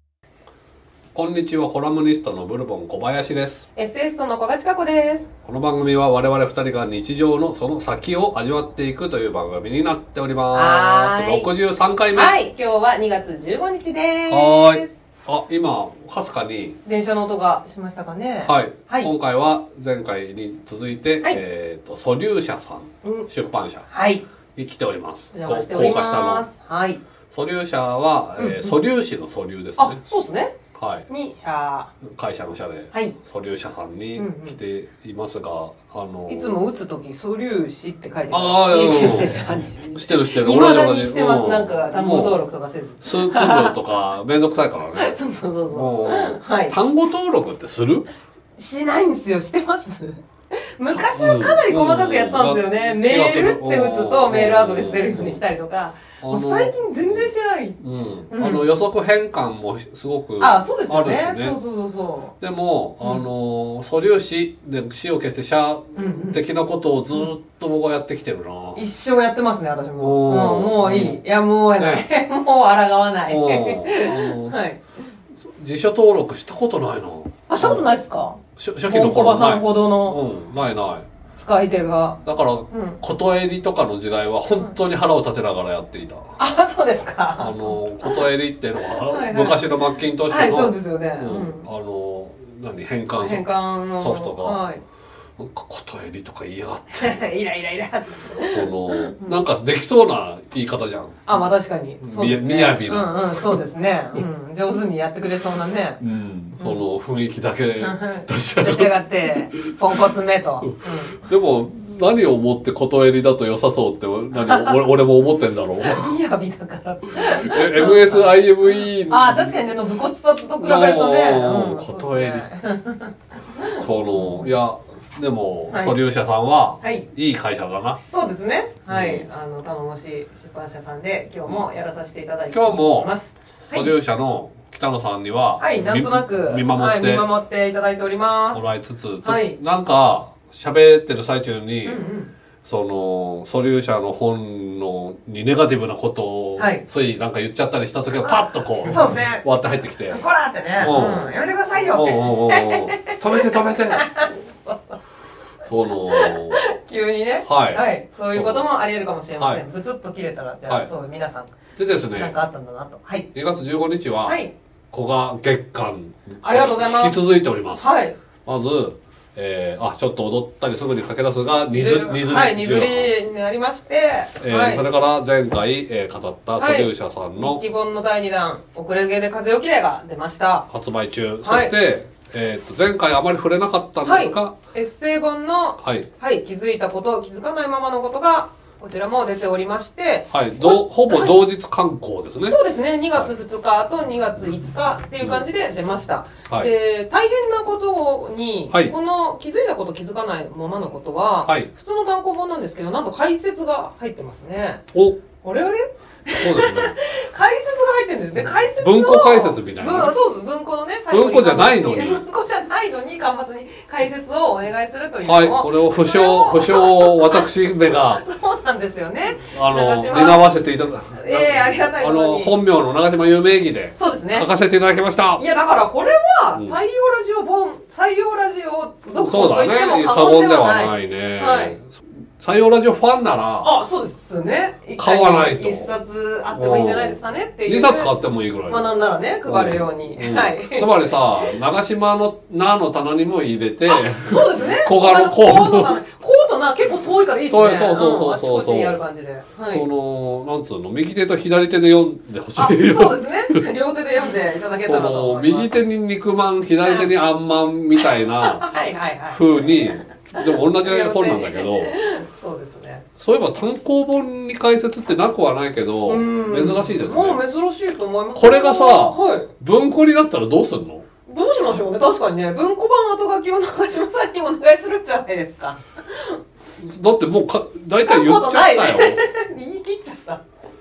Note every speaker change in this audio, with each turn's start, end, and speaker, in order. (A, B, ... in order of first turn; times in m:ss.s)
0:01.1-0:03.7 A
0:03.8-0:05.3 B
0:05.5-0:12.4 A
0:10.5-0:11.5 B
0:12.1-0:15.0 B
0:14.3-0:16.8 A
0:16.8-0:19.1 B
0:18.5-0:23.8 A
0:23.0-0:23.3 B
0:23.9-0:24.2 B
0:24.6-0:26.5 A
0:25.3-0:27.0 B
0:27.3-0:30.0 A
0:28.4-0:28.8 B
0:29.8-0:30.6 B
0:30.8-0:31.0 A
0:31.1-0:31.9 B
0:32.1-0:36.6 A
0:34.2-0:34.6 B
0:36.3-0:43.7 B
0:38.3-0:42.4 A
0:43.0-0:45.2 A
0:45.0-0:46.8 B
0:45.7-0:48.1 A
0:48.6-0:57.8 B
0:50.9-0:55.4 A
0:56.2-1:01.6 A
0:58.3-0:58.7 B
1:00.4-1:02.3 B
1:02.4-1:08.8 A
1:06.0-1:06.4 B
1:08.8-1:14.8 B
1:10.0-1:11.2 A
1:11.8-1:12.0 A
1:13.3-1:14.6 A
1:15.6-1:17.9 A
1:17.5-1:20.2 B
1:18.6-1:21.1 A
1:21.3-1:23.0 B
1:22.2-1:26.4 A
1:26.4-1:28.3 B
1:27.4-1:34.6 A
1:29.0-1:31.6 B
1:33.2-1:34.8 B
1:35.4-1:37.2 A
1:36.9-1:39.4 B
1:38.5-1:41.4 A
1:41.3-1:46.0 B
1:42.0-1:43.6 A
1:46.0-1:49.7 A
1:46.6-1:46.8 B
1:47.8-1:51.3 B
1:50.6-1:56.1 A
1:54.4-1:54.8 B
1:55.8-1:58.4 B
1:57.2-1:59.6 A
1:59.1-2:04.5 B
2:00.6-2:02.4 A
2:03.8-2:08.0 A
2:05.7-2:06.0 B
2:06.8-2:07.1 B
2:08.0-2:13.9 B
2:08.9-2:09.2 A
2:12.5-2:13.1 A
2:13.7-2:17.3 A
2:15.6-2:18.6 B
2:18.5-2:22.0 A
2:19.2-2:19.6 B
2:21.8-2:22.3 B
2:22.6-2:30.2 A
2:26.6-2:26.8 B
2:28.2-2:29.5 B
2:30.1-2:35.1 B
2:30.8-2:31.3 A
2:31.9-2:34.2 A
2:35.6-2:36.6 A
2:36.0-2:43.3 B
2:37.4-2:38.7 A
2:41.8-2:42.4 A
2:43.3-2:44.4 A
2:44.2-2:44.5 B
2:44.9-2:47.9 A
2:46.4-2:47.2 B
2:47.8-2:48.2 B
2:48.4-2:53.1 A
2:51.7-2:54.8 B
2:54.4-2:57.6 A
2:56.6-3:00.6 B
3:00.7-3:04.6 A
3:01.4-3:01.7 B
3:04.0-3:11.4 B
3:05.8-3:06.1 A
3:10.3-3:12.6 A
3:12.4-3:24.8 B
3:24.9-3:25.2 A
3:25.4-3:40.4 B
3:26.4-3:27.0 A
3:28.8-3:30.1 A
3:31.1-3:32.2 A
3:35.2-3:38.2 A
3:39.4-3:45.4 A
3:41.1-3:42.5 B
3:44.0-3:44.5 B
3:45.4-3:51.8 B
3:49.2-3:53.7 A
3:53.6-3:58.1 B
3:55.0-3:55.9 A
3:56.5-3:58.9 A
3:58.7-4:01.5 B
3:59.5-4:06.0 A
4:03.9-4:09.9 B
4:07.5-4:09.0 A
4:09.7-4:13.6 A
4:12.6-4:15.7 B
4:14.9-4:18.7 A
4:16.8-4:17.1 B
4:18.0-4:23.1 B
4:19.3-4:21.9 A
4:23.2-4:27.4 A
4:26.1-4:29.5 B
4:28.4-4:31.0 A
4:31.3-4:36.4 B
4:36.8-4:39.2 A
4:38.1-4:40.4 B